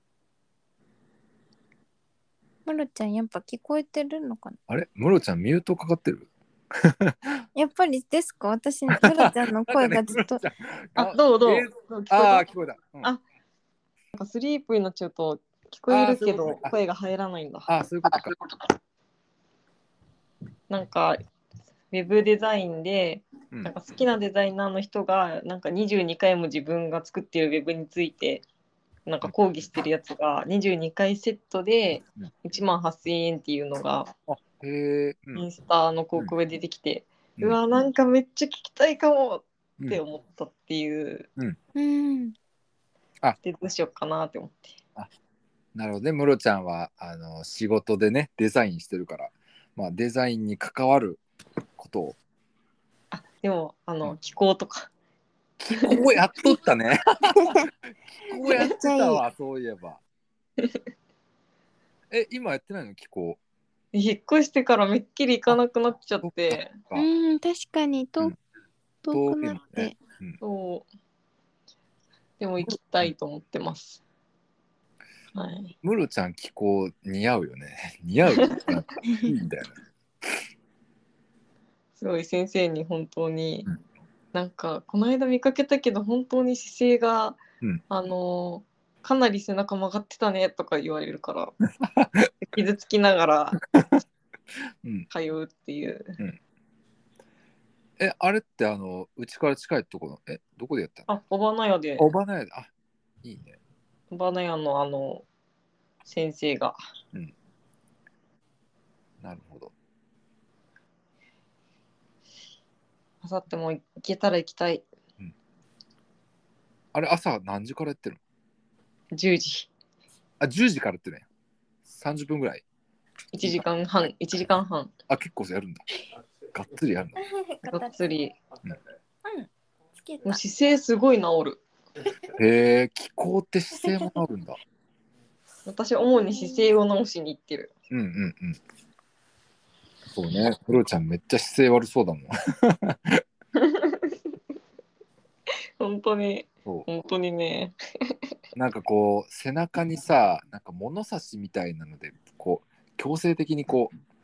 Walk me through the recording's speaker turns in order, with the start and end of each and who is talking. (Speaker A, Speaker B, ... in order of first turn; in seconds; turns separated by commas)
Speaker A: 2.6-4.6, Speaker B: 4.7-7.4, Speaker A: 7.5-10.4, Speaker B: 8.9-13.1, Speaker C: 11.0-12.5, Speaker C: 14.1-18.4, Speaker B: 15.9-16.7, Speaker B: 17.7-18.3, Speaker C: 20.7-21.2, Speaker C: 21.9-28.4, Speaker C: 29.1-34.1, Speaker B: 34.3-35.4, Speaker C: 35.3-41.3, Speaker A: 41.8-42.3, Speaker C: 43.4-44.7, Speaker B: 45.7-51.2, Speaker B: 51.8-52.2, Speaker C: 53.1-54.9, Speaker B: 55.6-57.6, Speaker C: 55.7-56.1, Speaker B: 58.2-60.0, Speaker A: 58.5-59.2, Speaker B: 62.1-63.4, Speaker C: 63.9-66.7, Speaker B: 66.2-67.1, Speaker A: 66.9-68.3, Speaker A: 69.0-70.0, Speaker B: 69.1-70.4, Speaker C: 70.4-70.8, Speaker C: 72.4-74.0, Speaker C: 75.3-75.7, Speaker B: 75.8-79.7, Speaker C: 78.3-78.8, Speaker C: 82.0-83.7, Speaker C: 84.3-91.5, Speaker B: 91.8-92.3, Speaker C: 92.4-93.6, Speaker B: 93.7-94.0, Speaker C: 95.1-96.2, Speaker B: 98.0-101.1, Speaker C: 101.1-102.1, Speaker B: 102.0-102.7, Speaker B: 103.2-103.6, Speaker C: 104.1-105.2, Speaker C: 106.0-106.8, Speaker B: 109.2-109.7, Speaker C: 113.2-114.8, Speaker B: 116.9-118.2, Speaker C: 119.1-119.7, Speaker B: 120.4-121.2, Speaker B: 121.8-122.6, Speaker C: 123.3-124.9, Speaker B: 125.1-125.8, Speaker B: 126.5-127.2, Speaker A: 127.2-128.0, Speaker C: 127.6-128.3, Speaker A: 129.2-129.5, Speaker A: 130.0-130.4, Speaker C: 130.2-131.6, Speaker B: 132.3-134.6, Speaker C: 135.7-137.7, Speaker A: 136.2-136.7, Speaker B: 137.9-138.6, Speaker B: 140.1-143.2, Speaker C: 143.6-144.1, Speaker C: 145.8-148.1, Speaker B: 148.5-153.9